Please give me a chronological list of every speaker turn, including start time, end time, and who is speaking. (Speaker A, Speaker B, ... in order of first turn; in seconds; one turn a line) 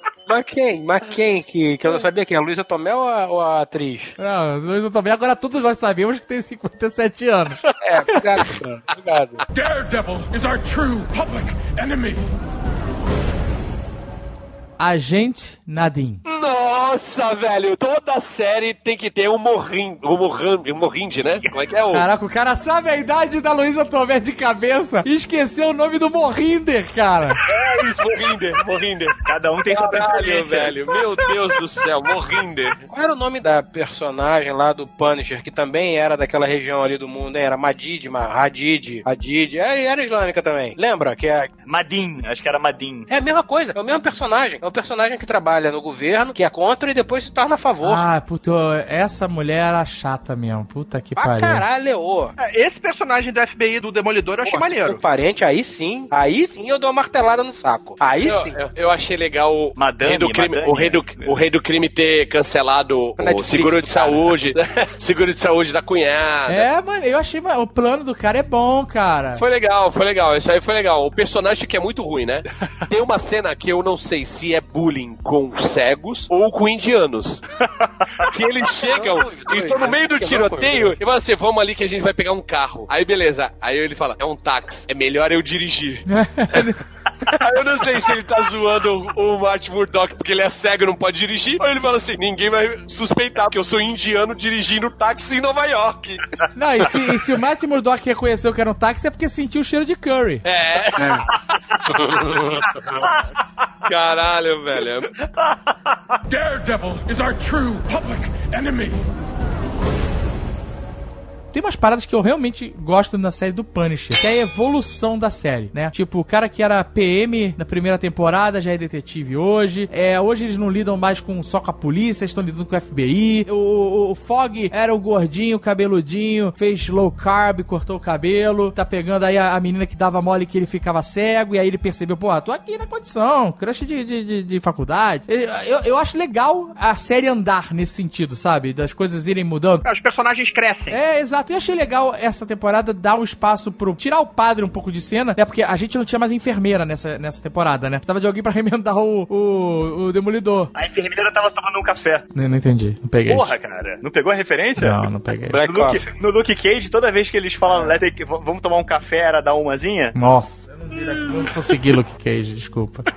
Speaker A: 0.3-4.2
Speaker B: 4.2-7.6
Speaker A: 7.8-9.4
Speaker C: 9.5-12.3
Speaker B: 14.8-16.2
Speaker D: 16.2-22.1
Speaker B: 21.9-27.4
Speaker D: 27.5-29.1
Speaker E: 27.5-27.8
Speaker E: 29.2-30.8
Speaker D: 29.7-32.8
Speaker A: 32.9-41.5
Speaker E: 41.6-43.1
Speaker A: 43.1-48.1
Speaker B: 47.8-51.6
Speaker A: 51.1-52.3
Speaker F: 52.4-55.0
Speaker A: 54.4-58.6
Speaker D: 58.2-66.7
Speaker E: 59.8-61.3
Speaker A: 63.2-64.3
Speaker B: 66.5-69.4
Speaker D: 69.4-77.4
Speaker D: 78.2-86.0
Speaker A: 78.7-81.0
Speaker B: 86.1-86.8
Speaker D: 87.2-96.2
Speaker B: 96.5-100.4
Speaker D: 100.4-101.2
Speaker A: 101.0-101.2
Speaker A: 101.9-103.1
Speaker D: 103.8-105.1
Speaker C: 106.3-109.0
Speaker B: 111.5-139.8
Speaker F: 139.8-141.0
Speaker B: 140.9-150.7
Speaker E: 150.7-152.2
Speaker B: 152.3-153.5
Speaker E: 153.3-155.0
Speaker B: 154.8-155.6
Speaker A: 155.5-156.1
Speaker E: 155.6-160.2
Speaker B: 160.1-163.1